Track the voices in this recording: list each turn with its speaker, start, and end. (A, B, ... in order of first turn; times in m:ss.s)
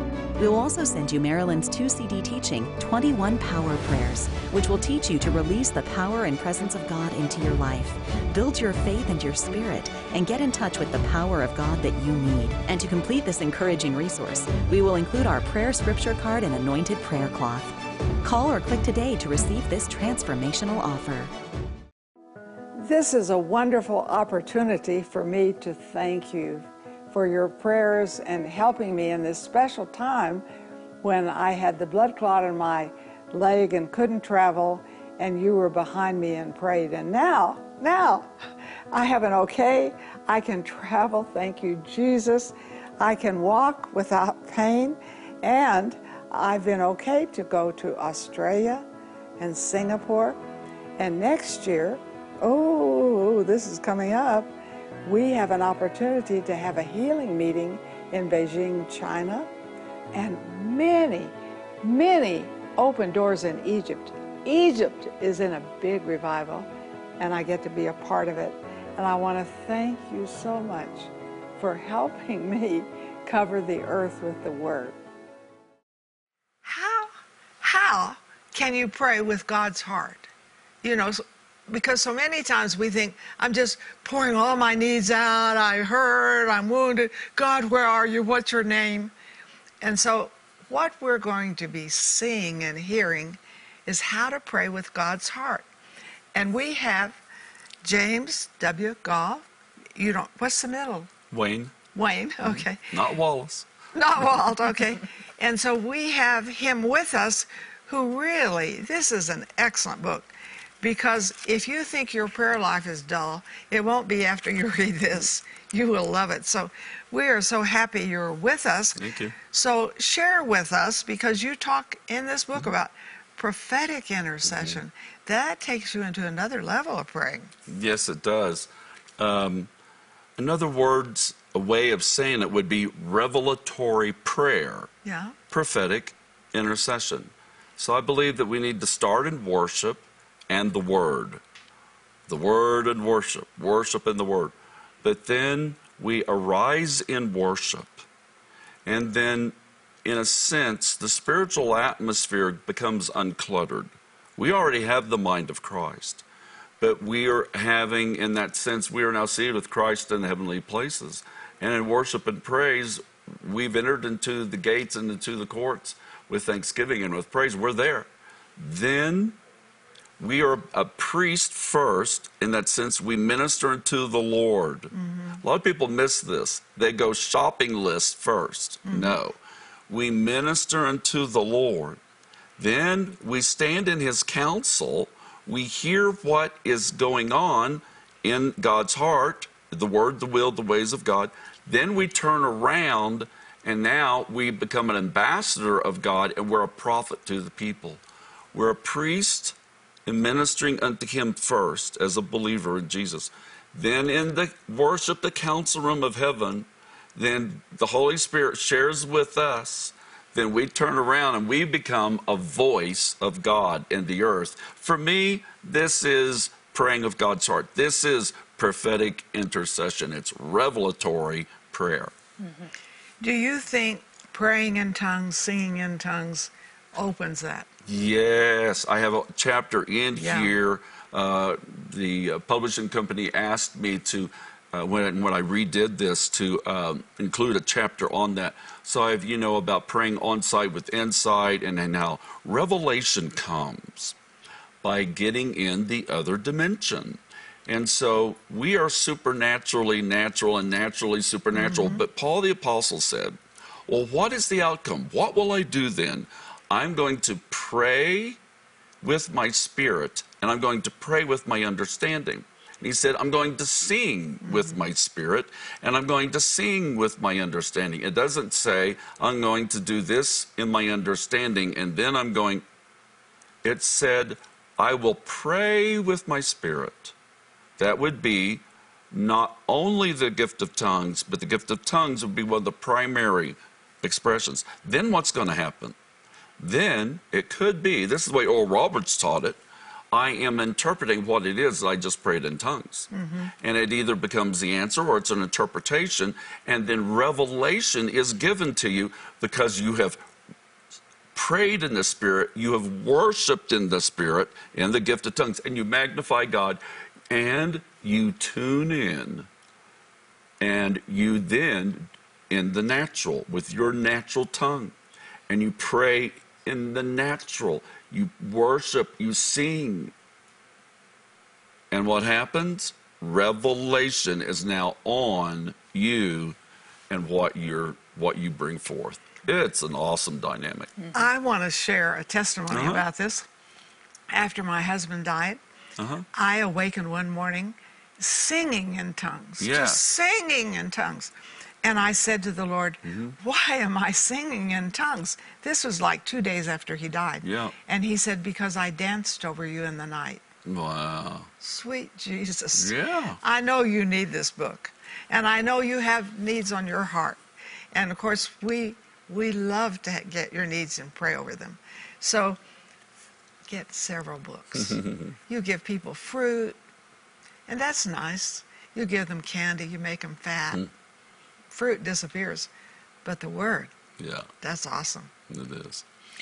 0:00.4-0:21.3 A
0:22.8-0:30.4 B
0:31.0-0:48.9 B
0:49.4-0:50.4 B
0:51.0-0:54.5 B
0:55.0-0:59.5 B
1:00.1-1:15.0 B
1:16.6-1:20.3 B
1:20.8-1:29.1 B
1:29.8-1:35.7 B
1:36.3-1:37.2 B
1:37.8-1:41.1 B
1:41.3-1:41.7 C
1:41.9-1:42.9 B
1:42.4-1:43.7 C
1:43.9-1:50.3 B
1:50.8-2:07.5 B
1:59.0-1:59.4 C
2:04.4-2:04.8 C
2:07.7-2:09.7 C
2:10.4-2:14.9 C
2:15.0-2:15.4 B
2:15.5-2:21.4 C
2:22.3-2:28.0 C
2:28.8-2:36.2 C
2:36.8-2:49.4 C
2:50.2-2:59.4 C
2:54.9-2:55.4 B
2:58.9-2:59.2 B
2:59.9-3:02.0 C
3:02.6-3:18.0 C
3:18.5-3:42.1 C
3:43.2-3:47.7 B
3:47.8-4:04.2 C
3:50.2-3:50.5 B
4:04.8-4:13.4 C
4:11.5-4:12.0 B
4:13.9-4:18.4 C
4:19.0-4:32.6 C
4:24.4-4:24.8 B
4:33.6-4:37.1 C
4:37.8-4:45.9 C
4:46.6-4:49.6 C
4:50.1-4:53.1 C
4:53.1-4:53.5 B
4:53.6-5:00.2 C
5:01.3-5:09.5 C
5:10.6-5:14.9 C
5:15.5-5:20.1 C
5:21.9-5:26.6 C
5:27.1-5:30.9 C
5:31.1-5:33.5 B
5:32.7-5:33.0 C
5:34.3-5:35.6 B
5:36.0-5:36.2 C
5:36.3-5:50.4 B
5:39.6-5:40.0 C
5:43.0-5:43.4 C
5:47.4-5:47.8 C
5:50.6-5:51.5 C
5:51.6-5:57.4 B
5:52.7-5:53.4 C
5:57.9-6:02.6 B
6:03.7-6:06.8 B
6:04.8-6:05.4 C
6:07.7-6:10.8 B
6:11.7-6:12.7 B
6:13.2-6:13.9 B
6:14.2-6:14.5 C
6:14.6-6:15.3 B
6:15.5-6:16.0 C